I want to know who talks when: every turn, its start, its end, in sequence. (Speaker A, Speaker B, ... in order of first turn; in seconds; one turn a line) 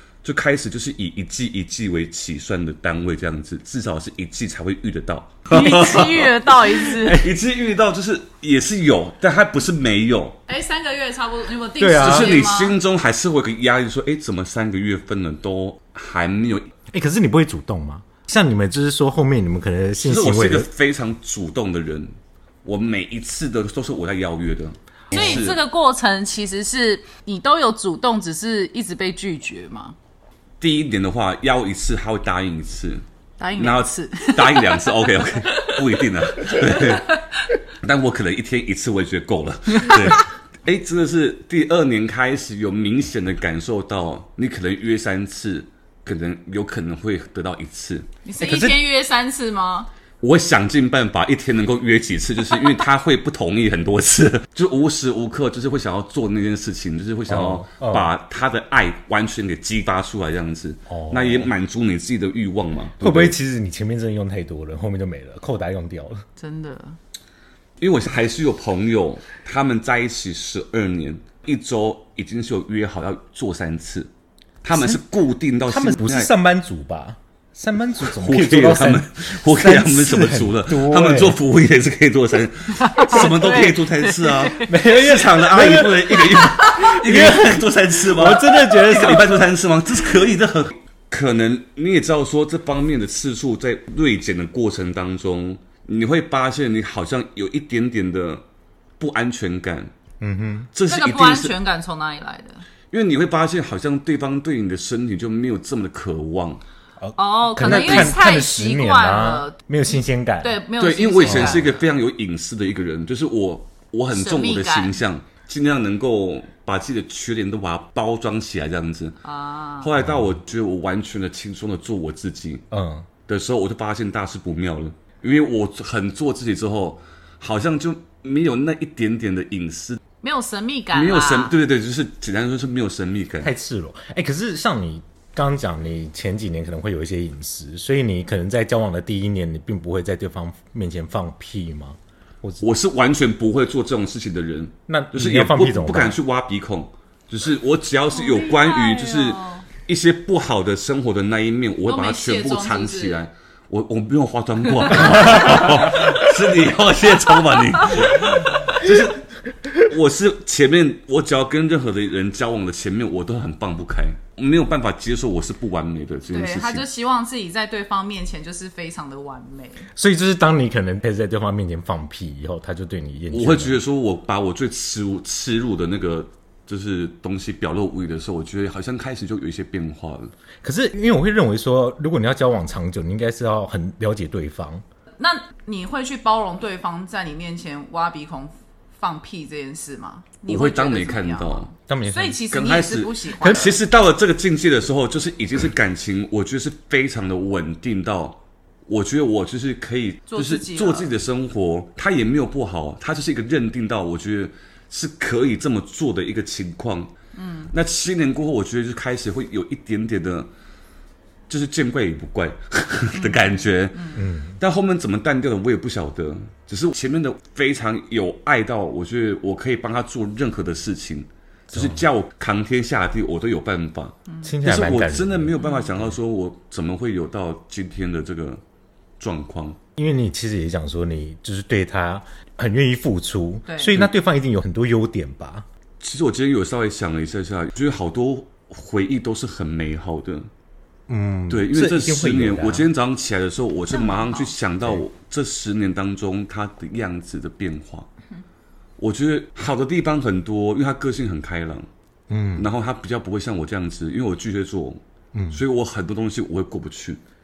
Speaker A: 0.2-6.2
Speaker B: 5.5-7.3
Speaker A: 6.8-10.4
Speaker B: 10.5-12.8
Speaker C: 11.8-12.4
Speaker A: 12.0-16.7
Speaker C: 16.9-20.7
Speaker A: 20.0-25.6
Speaker B: 25.1-30.0
Speaker A: 30.6-33.0
Speaker B: 33.4-37.0
Speaker A: 33.6-37.1
Speaker A: 37.7-48.1
Speaker B: 39.9-40.2
Speaker B: 48.2-49.9
Speaker C: 48.4-48.8
Speaker A: 50.2-63.4
Speaker C: 57.3-58.1
Speaker C: 60.9-61.5
Speaker C: 63.0-66.2
Speaker B: 66.4-67.0
Speaker A: 67.8-74.1
Speaker A: 74.6-76.3
Speaker C: 74.7-75.0
Speaker C: 75.6-81.4
Speaker A: 78.0-98.4
Speaker B: 82.8-84.7
Speaker C: 84.7-89.5
Speaker A: 99.0-99.9
Speaker C: 100.2-100.7
Speaker A: 100.7-101.5
Speaker B: 100.9-102.7
Speaker A: 102.9-106.6
Speaker C: 107.0-110.6
Speaker B: 107.2-109.6
Speaker A: 107.6-108.2
Speaker B: 110.4-111.8
Speaker A: 110.8-119.2
Speaker C: 111.3-111.6
Speaker B: 114.1-115.0
Speaker B: 119.2-119.9
Speaker A: 119.8-122.7
Speaker C: 122.7-123.1
Speaker A: 123.3-130.0
Speaker B: 130.2-131.5
Speaker A: 130.9-133.5
Speaker C: 133.4-142.7
Speaker A: 142.6-166.9
Speaker C: 144.9-146.2
Speaker B: 148.1-149.7
Speaker B: 151.9-153.2
Speaker B: 166.3-169.8
Speaker C: 170.0-173.8
Speaker A: 173.3-180.3
Speaker C: 180.6-184.8
Speaker B: 185.2-193.8
Speaker A: 190.5-191.7
Speaker C: 191.9-192.4
Speaker A: 192.5-207.1
Speaker B: 200.3-201.1
Speaker B: 207.3-207.7
Speaker A: 207.7-210.5
Speaker A: 211.5-228.6
Speaker B: 213.1-214.2
Speaker C: 214.2-214.6
Speaker C: 221.7-222.0
Speaker B: 224.3-224.5
Speaker C: 224.4-226.2
Speaker A: 229.2-229.8
Speaker C: 230.0-235.7
Speaker B: 233.7-234.0
Speaker A: 236.0-240.5
Speaker C: 241.1-242.9
Speaker A: 241.5-248.1
Speaker B: 243.9-244.5
Speaker A: 249.0-251.9
Speaker C: 252.3-252.7
Speaker A: 252.6-255.0
Speaker C: 255.3-255.6
Speaker A: 255.5-257.2